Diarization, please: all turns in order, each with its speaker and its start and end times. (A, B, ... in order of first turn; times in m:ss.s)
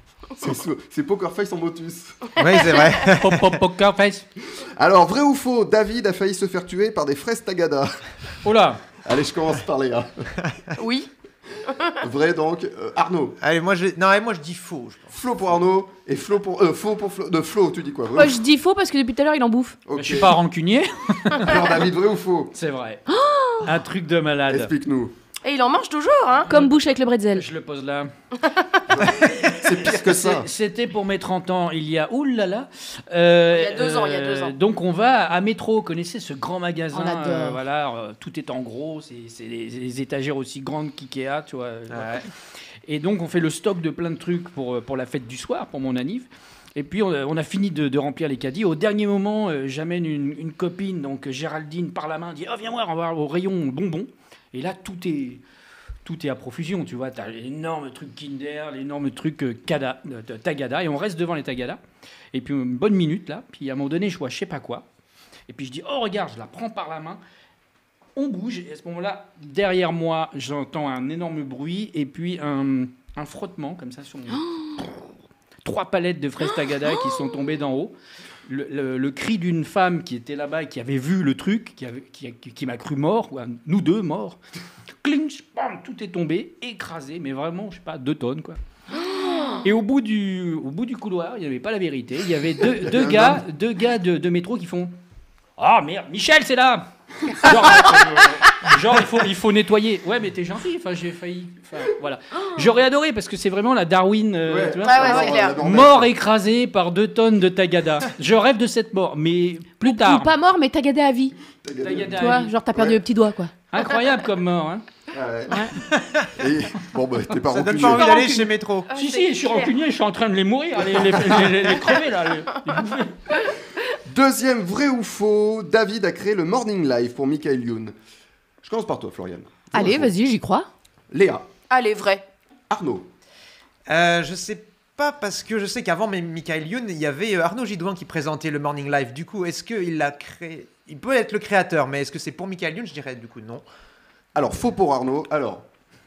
0:00.4-0:02.3 A
0:02.4-0:03.6 B
0:02.5-0:02.9 C
0:03.1-0:04.2 D
0:04.8-0:08.0 A
0:08.4-0:08.8 D
0:09.0-0:10.3 A
0:10.8-0:11.1 C
0:12.0-0:13.4 A
0:13.4-0:15.1 B
0:15.1-0:18.4 A
0:18.1-0:19.8 E
0:19.8-0:20.4 A
0:19.9-0:21.7 D
0:21.4-0:22.5 A
0:22.5-0:23.0 D
0:23.1-0:23.7 E
0:23.6-0:24.7 D
0:24.5-0:25.1 A
0:25.4-0:26.5 C
0:26.4-0:26.8 D
0:26.5-0:27.4 E
0:27.3-0:28.1 D
0:28.9-0:30.5 A
0:29.7-0:42.3 D
0:33.5-0:34.5 C
0:36.9-0:37.6 E
0:41.9-0:42.2 B
0:42.8-0:55.4 D
0:56.0-1:01.8 D
1:02.3-1:04.8 D
1:05.5-1:07.2 D
1:08.2-1:14.4 D
1:14.3-1:14.7 E
1:15.6-1:17.9 D
1:16.5-1:17.3 E
1:18.4-1:24.4 D
1:25.0-1:28.6 D
1:29.0-1:29.6 E
1:29.6-1:34.9 D
1:32.6-1:33.4 A
1:35.6-1:50.3 D
1:44.4-1:46.1 A
1:44.8-1:45.6 C
1:49.8-1:51.3 E
1:51.6-1:53.0 A
1:51.8-1:52.5 D
1:52.2-1:53.5 E
1:53.7-1:54.8 D
1:55.1-1:55.7 A
1:55.9-1:56.3 B
1:56.4-1:58.1 A
1:57.5-1:58.9 B
1:58.0-1:59.7 C
1:58.9-2:03.1 D
2:00.9-2:01.6 A
2:04.0-2:07.9 A
2:08.6-2:10.1 A
2:09.7-2:10.7 E
2:11.1-2:11.4 A
2:11.7-2:12.2 C
2:12.7-2:13.1 A
2:13.9-2:23.6 B
2:24.3-2:25.7 A